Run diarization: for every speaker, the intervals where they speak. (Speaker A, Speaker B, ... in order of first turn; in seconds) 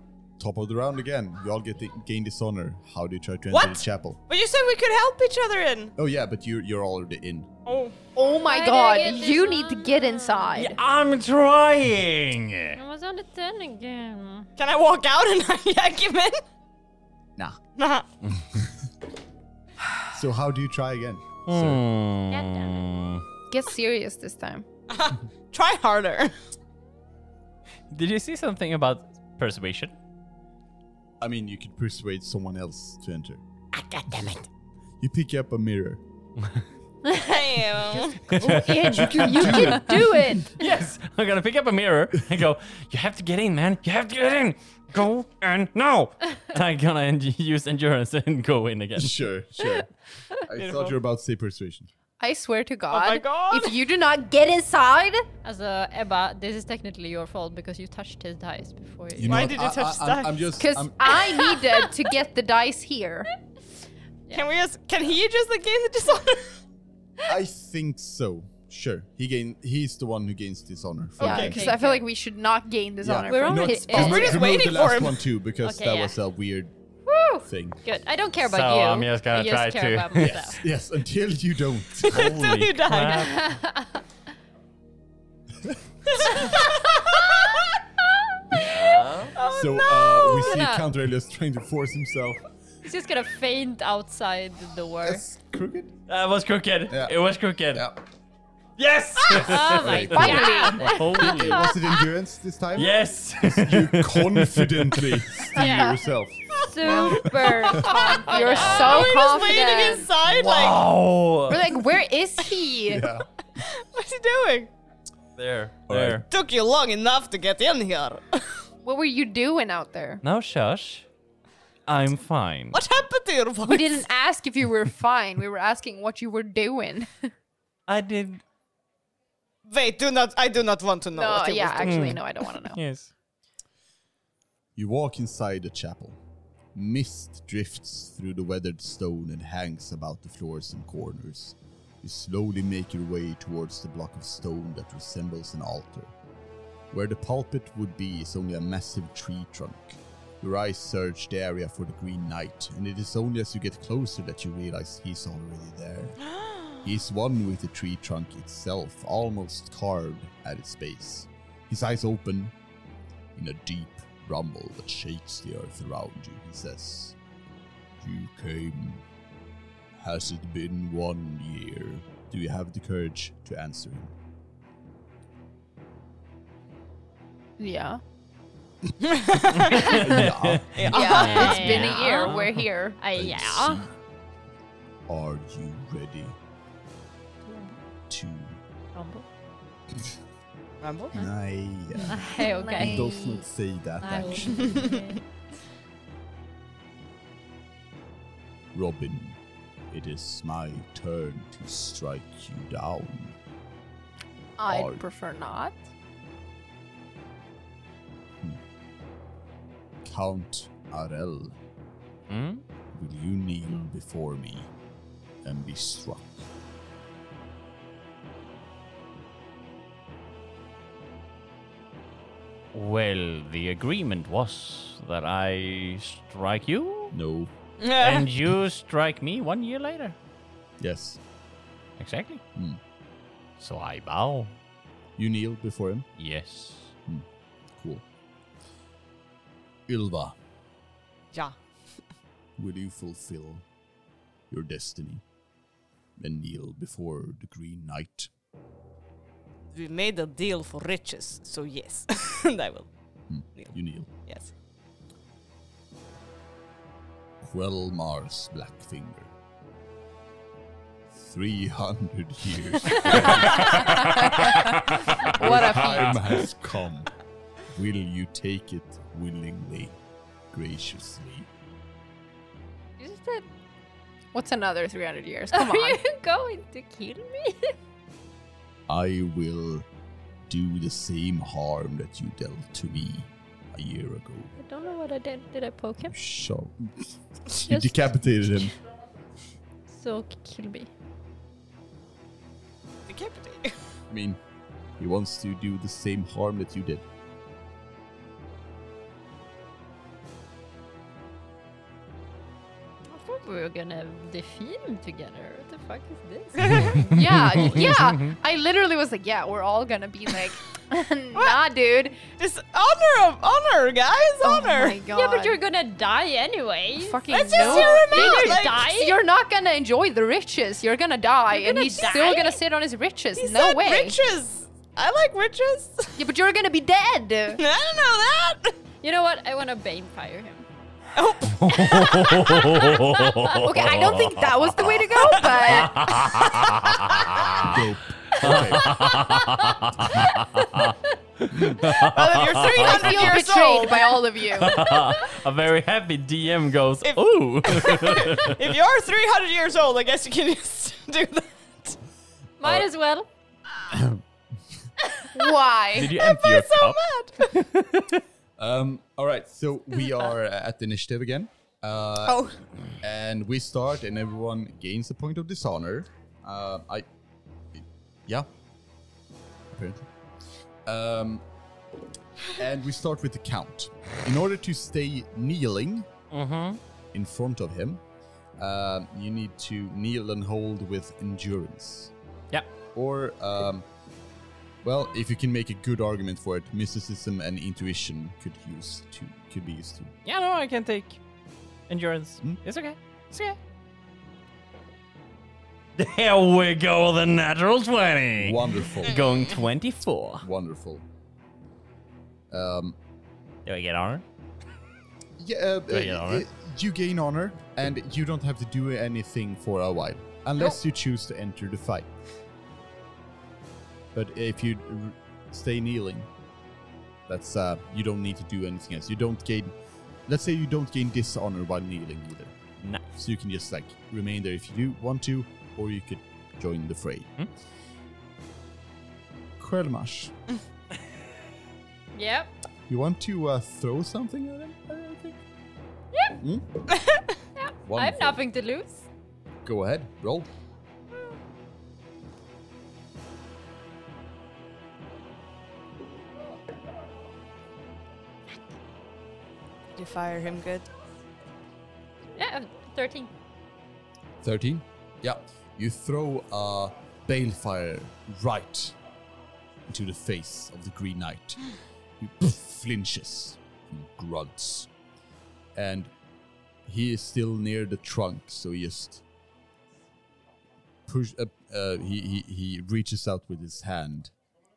Speaker A: 0.4-4.2, 6.0-7.5, 20.1-21.8, 31.2-33.4, 35.0-36.0, 38.4-40.4, 49.0-49.9, 50.4-51.9, 59.2-61.2, 67.2-71.7, 73.0-76.7, 77.4-77.8, 80.2-82.3, 89.5-92.4, 95.0-95.9, 96.9-97.2, 97.7-98.0, 99.4-107.7, 112.9-113.3, 115.9-116.2, 134.8-136.2, 136.7-146.1, 146.9-156.2, 156.8-162.5, 163.3-167.2, 168.0-169.0, 169.9-174.1, 179.8-181.3, 183.1-183.9, 185.1-186.4, 188.1-188.6, 189.9-190.2, 191.1-192.2, 192.8-194.8, 198.7-199.4, 199.9-203.3, 204.7-205.0, 210.0-211.6, 212.9-214.7, 215.4-216.5, 227.1-227.5, 230.8-231.2, 232.5-232.8, 235.2-236.1, 237.1-238.0, 239.9-240.3, 242.6-243.6, 244.5-245.2, 246.2-248.3, 253.3-254.1, 257.4-259.3, 261.1-267.1, 267.7-269.9, 270.5-271.5, 278.9-279.9, 280.5-284.5, 286.0-288.7, 294.1-294.4, 295.0-297.0, 337.6-339.1, 341.5-341.9, 352.6-352.9, 358.6-367.1, 367.7-368.5, 369.7-370.1, 370.9-371.4, 372.5-376.1, 377.1-378.0, 378.6-382.1, 382.9-383.9, 384.8-390.1, 398.4-399.2, 400.4-401.1, 402.5-402.9, 405.4-412.1, 414.1-416.3, 417.3-419.7, 420.3-422.6, 423.1-427.3, 429.6-430.3, 432.9-435.4, 436.4-436.8, 437.9-438.4, 439.6-440.5, 454.4-458.9, 459.9-464.9, 465.7-466.1, 466.8-469.2, 471.1-474.3
Speaker B: 3.5-5.9, 7.7-7.9, 14.6-16.4, 17.8-18.1, 24.9-26.3, 37.1-38.3, 50.5-50.9, 52.9-53.8, 59.2-60.5, 64.3-66.6, 73.9-75.2, 82.0-83.3, 86.0-87.8, 89.3-90.5, 107.8-110.8, 113.6-114.7, 116.3-118.6, 122.7-124.0, 129.6-132.1, 156.3-156.8, 179.0-180.0, 180.7-181.7, 190.8-191.2, 194.5-195.2, 227.8-228.3, 241.3-241.6, 249.7-252.9, 254.2-254.5, 293.1-293.8, 306.5-307.1, 311.3-311.6, 312.4-315.0, 317.3-318.9, 323.4-326.2, 327.6-328.7, 331.1-332.7, 342.0-344.1, 347.0-352.0, 356.1-357.6, 436.9-437.2, 449.9-450.9
Speaker C: 8.2-10.8, 23.5-24.6, 38.4-40.5, 52.2-55.3, 60.5-63.3, 71.2-74.4, 100.0-101.0, 105.6-106.0, 106.8-110.1, 111.5-113.1, 118.8-120.2, 123.6-127.3, 131.1-132.8, 177.6-178.0, 180.9-183.0, 192.2-193.4, 194.1-194.9, 204.6-205.8, 262.9-266.4, 274.3-276.0, 307.0-312.2, 314.4-315.6, 317.0-324.2, 326.2-327.6, 333.5-336.9, 342.7-344.9, 355.3-356.2
Speaker D: 8.4-10.6, 12.8-14.5, 22.3-22.9, 39.6-40.5, 55.4-59.6, 71.2-72.0, 73.3-74.4, 75.6-76.2, 77.0-80.6, 83.1-84.0, 90.2-90.9, 92.8-95.2, 99.3-101.8, 105.5-106.0, 106.6-109.2, 181.2-182.4, 183.0-183.8, 187.4-187.8, 188.9-189.2, 192.1-193.3, 194.0-195.2, 273.0-273.4, 275.5-277.7, 284.6-286.1, 287.7-288.7, 289.9-290.9, 303.1-307.0, 315.1-319.2, 321.5-322.6, 329.0-330.7, 352.6-353.3, 432.1-432.5, 437.6-439.1, 452.4-453.3
Speaker E: 10.5-12.8, 21.5-23.2, 27.9-29.9, 33.7-34.5, 38.3-39.8, 40.5-49.2, 78.4-80.5, 82.0-83.5, 88.5-89.3, 96.1-97.9, 98.8-101.7, 102.8-105.5, 108.5-109.1, 110.3-111.8, 115.4-116.2, 120.2-121.0, 121.9-122.8, 127.9-128.4, 131.8-133.1, 179.7-182.6, 212.3-212.6, 222.7-227.2, 228.0-230.1, 232.0-232.4, 233.6-234.5, 236.2-236.9, 263.3-266.1, 306.8-308.4, 331.6-343.3, 344.5-348.6, 355.9-358.2, 376.3-376.8, 390.2-391.2, 391.9-393.6, 396.0-400.5, 403.6-404.2, 405.9-406.4